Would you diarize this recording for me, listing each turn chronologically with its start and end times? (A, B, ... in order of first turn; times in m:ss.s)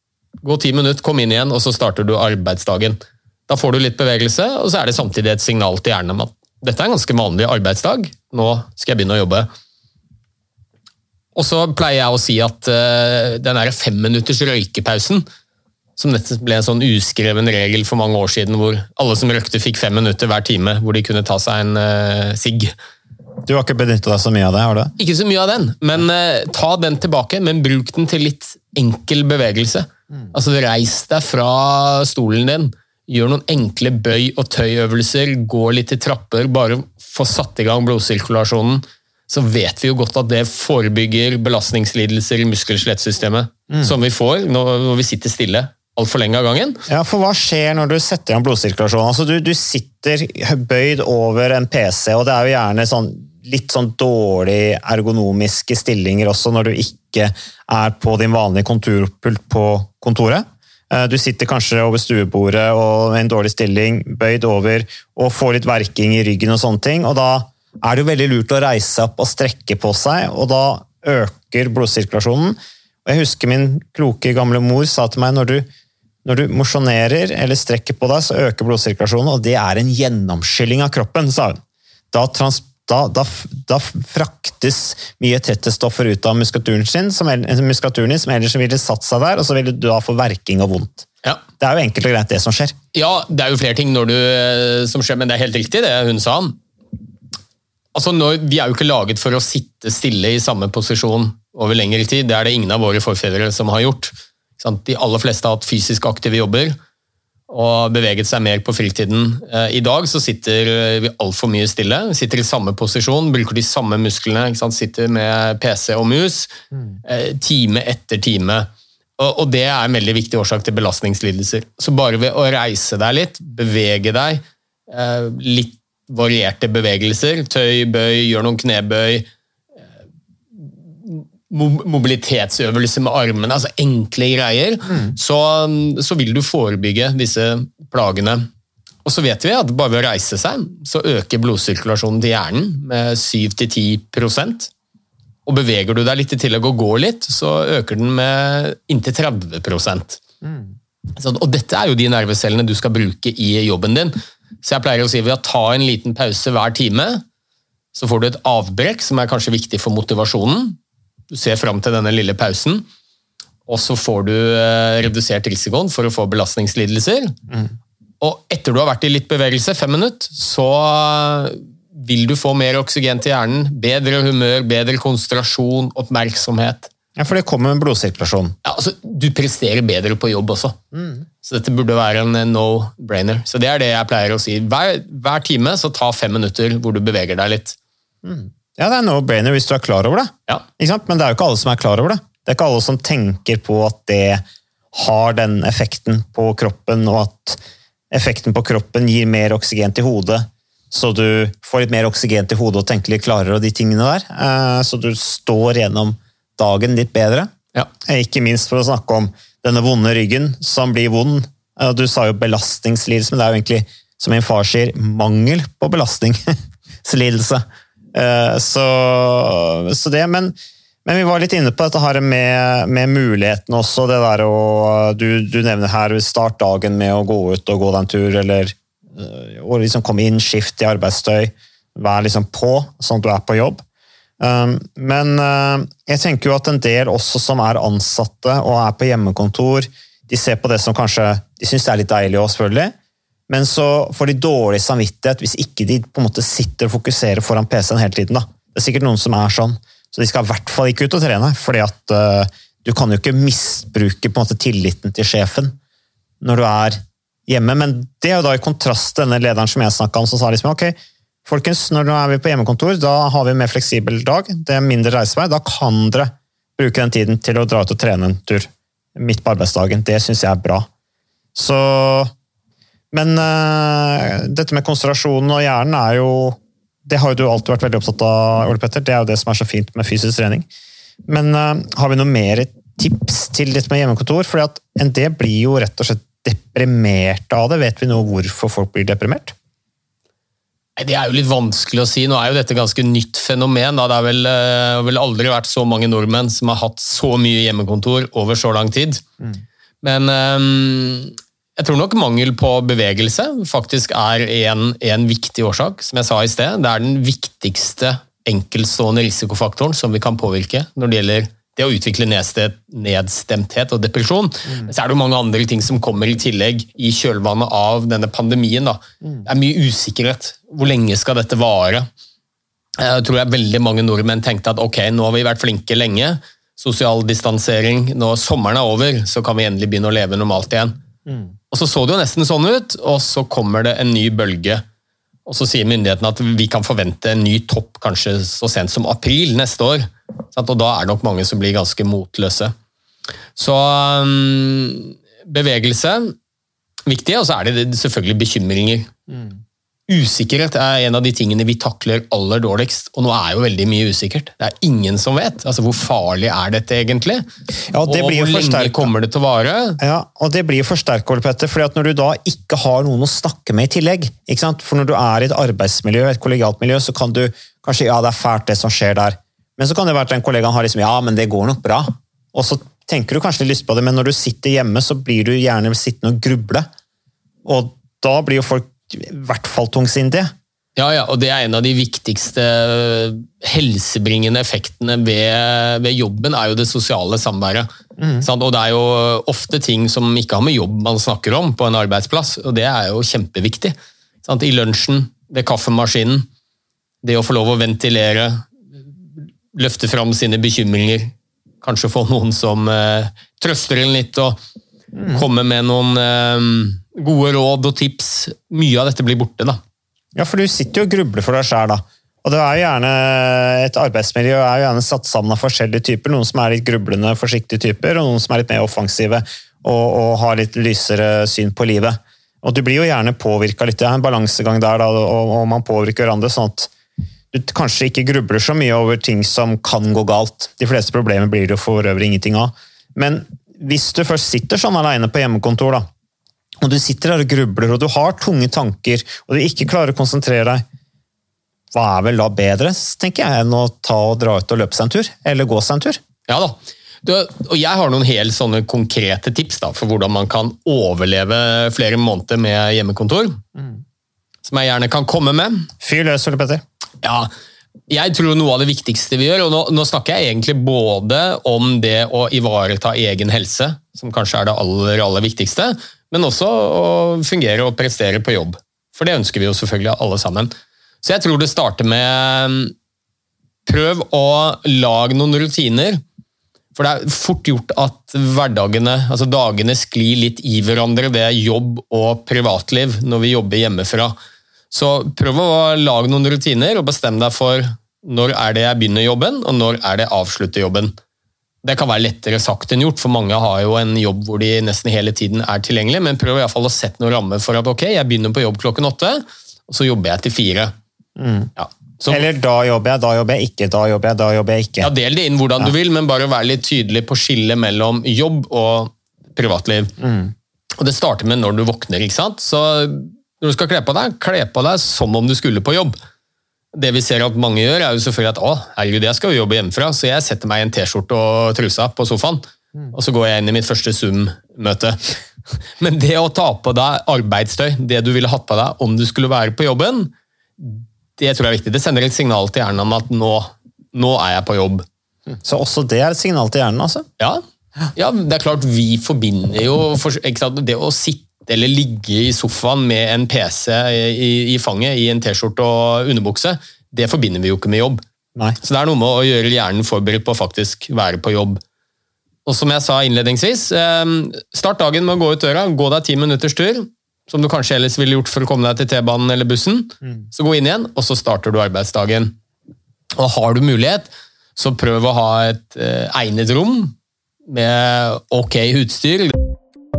0:00.4-0:09.5 A
0:11.3-0:15.2 A
0:16.0-0:22.7 A
0:23.4-0:24.9 B
0:25.0-0:46.8 A
0:46.9-1:15.7 B
1:16.2-1:21.6 B
1:22.1-1:31.1 B
1:31.6-1:32.8 B
1:32.9-1:36.6 A
1:37.9-1:46.8 A
1:47.5-1:56.5 A
1:57.0-2:09.3 A
2:10.6-2:18.5 A
2:19.0-2:24.7 A
2:25.4-2:30.2 A
2:30.4-2:30.7 B
2:31.2-2:37.2 A
2:37.9-2:40.8 A
2:41.3-2:42.9 A
2:43.7-2:47.3 A
2:48.2-2:56.9 A
2:57.2-2:58.5 B
2:58.6-3:00.8 A
3:00.9-3:01.2 B
3:01.4-3:07.8 A
3:08.2-3:17.6 B
3:18.1-3:27.5 B
3:28.0-3:36.5 B
3:37.0-3:53.8 B
3:54.4-4:02.9 B
4:03.5-4:15.8 B
4:16.4-4:30.9 B
4:31.5-4:32.3 B
4:33.1-4:40.7 B
4:41.3-4:49.5 B
4:51.0-4:59.2 A
5:00.0-5:22.1 A
5:23.0-5:31.0 A
5:31.3-5:31.5 B
5:31.7-5:34.8 A
5:35.4-5:42.7 A
5:43.6-5:46.4 A
5:47.1-5:49.1 A
5:49.3-5:49.6 B
5:50.1-5:57.4 A
5:57.9-5:59.1 B
5:58.0-6:00.0 A
6:00.0-6:16.9 B
6:17.6-6:20.5 B
6:21.0-6:27.9 A
6:28.2-6:28.5 B
6:28.4-6:36.5 A
6:37.2-6:38.7 A
6:39.7-6:44.6 A
6:45.1-6:45.4 B
6:45.3-6:49.8 A
6:50.3-7:06.9 B
7:07.5-7:16.0 B
7:16.8-7:20.8 B
7:21.9-7:26.2 B
7:26.5-7:33.6 A
7:34.6-7:35.9 A
7:36.0-7:36.8 B
7:37.2-7:37.5 A
7:38.1-7:50.7 A
7:51.2-7:52.9 A
7:53.9-7:56.2 A
7:56.9-8:04.3 A
8:04.9-8:11.1 A
8:11.8-8:20.9 A
8:21.4-8:21.7 B
8:21.8-8:22.4 A
8:22.3-8:25.1 B
8:25.0-8:30.1 A
8:30.2-8:30.5 B
8:31.0-8:36.2 A
8:36.9-8:45.2 A
8:46.0-8:55.0 A
8:55.6-8:57.2 B
8:58.1-9:08.2 A
9:08.8-9:11.8 A
9:12.6-9:22.6 A
9:23.4-9:27.1 A
9:27.7-9:29.6 A